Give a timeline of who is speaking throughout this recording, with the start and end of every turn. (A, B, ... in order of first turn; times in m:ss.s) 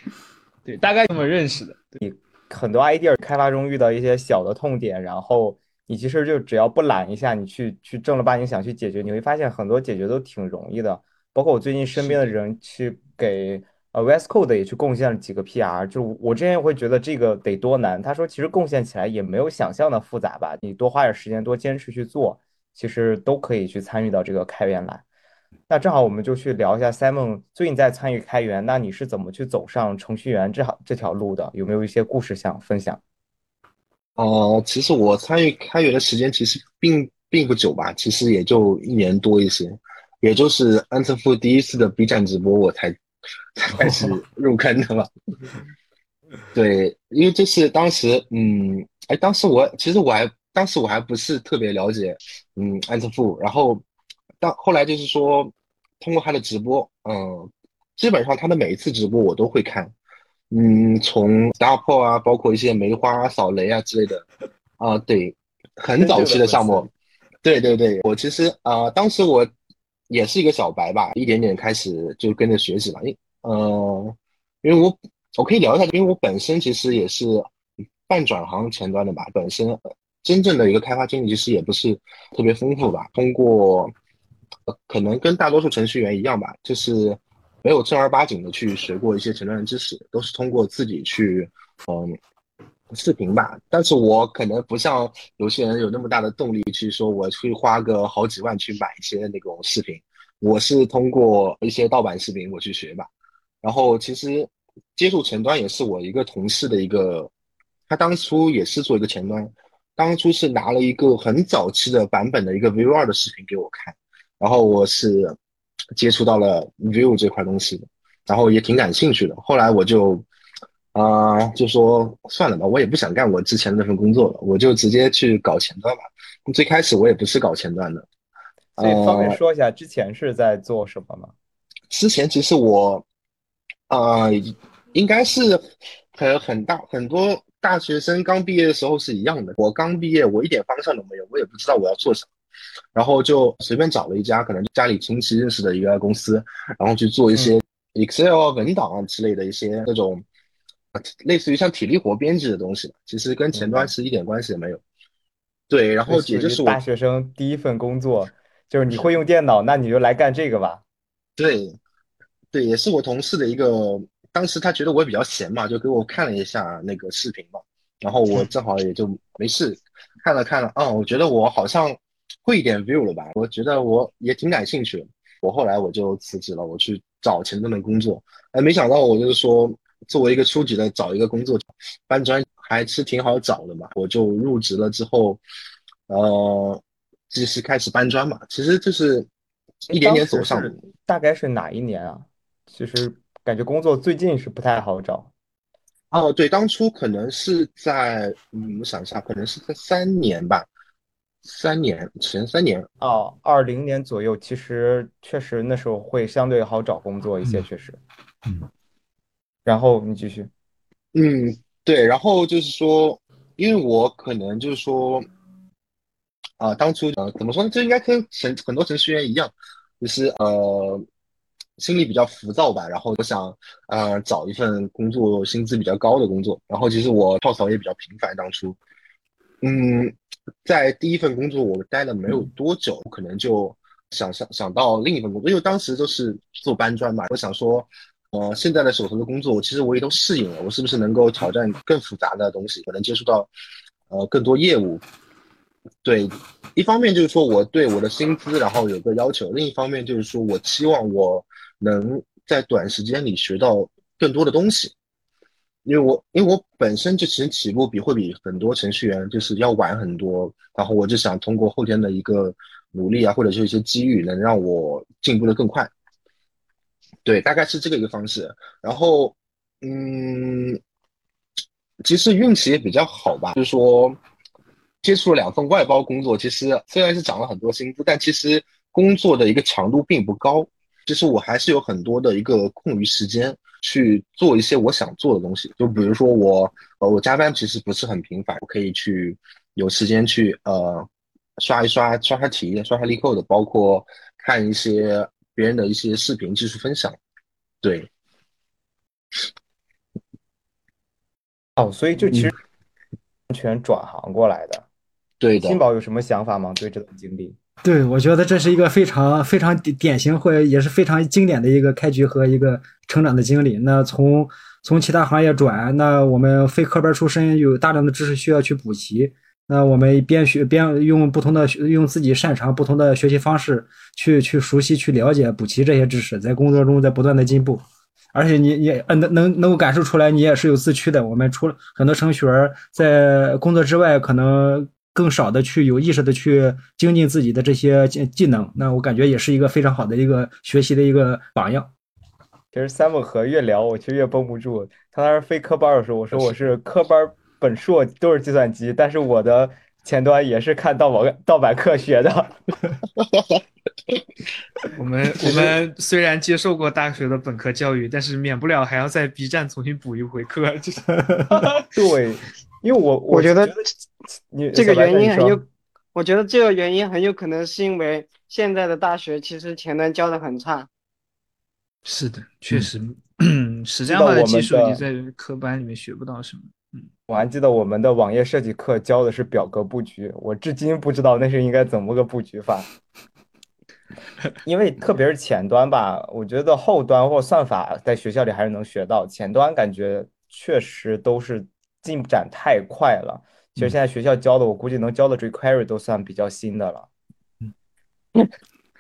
0:00.6-0:02.0 A
0:02.0-0:25.0 B
0:25.7-0:33.0 B
0:34.2-0:43.0 C
0:43.5-0:45.1 C
0:46.5-0:53.8 C
0:54.4-0:59.9 C
1:00.5-1:04.2 C
1:04.8-1:06.9 C
1:07.4-1:09.5 C
1:10.1-1:17.5 C
1:18.1-1:23.9 C
1:24.7-1:32.2 C
1:32.9-1:43.1 C
1:43.6-1:47.3 C
1:47.9-1:55.4 C
1:56.0-2:00.2 C
2:00.9-2:08.1 C
2:08.8-2:11.3 B
2:08.8-2:09.4 C
2:11.9-2:13.0 C
2:13.9-2:22.3 C
2:22.9-2:30.2 C
2:30.9-2:34.8 C
2:33.5-2:33.9 B
2:35.7-2:36.8 C
2:36.1-2:40.8 B
2:41.4-2:41.8 C
2:42.5-3:05.4 C
3:06.1-3:09.3 C
3:09.8-3:10.8 C
3:09.9-3:15.3 B
3:16.1-3:20.7 C
3:21.4-3:22.9 C
3:23.0-3:28.0 B
3:29.6-3:30.5 B
3:31.1-3:35.3 C
3:36.6-3:41.0 C
3:41.8-3:48.8 C
3:49.6-4:03.5 C
4:04.1-4:05.0 C
4:06.0-4:14.9 C
4:15.8-4:25.9 C
4:27.2-4:30.8 C
4:32.0-4:34.2 C
4:35.0-4:57.2 C
4:57.8-4:58.1 C
5:01.8-5:02.6 B
5:03.5-5:04.8 B
5:05.4-5:05.8 C
5:05.6-5:07.6 B
5:07.8-5:41.9 D
5:42.7-5:52.6 B
5:53.2-5:53.5 C
5:54.9-6:01.8 A
6:01.2-6:01.4 D
6:01.9-6:03.9 B
6:03.3-6:03.8 E
6:04.5-6:05.6 B
6:04.7-6:10.9 E
6:12.0-6:17.1 A
6:14.1-6:15.0 B
6:17.3-6:22.9 B
6:24.6-6:37.1 B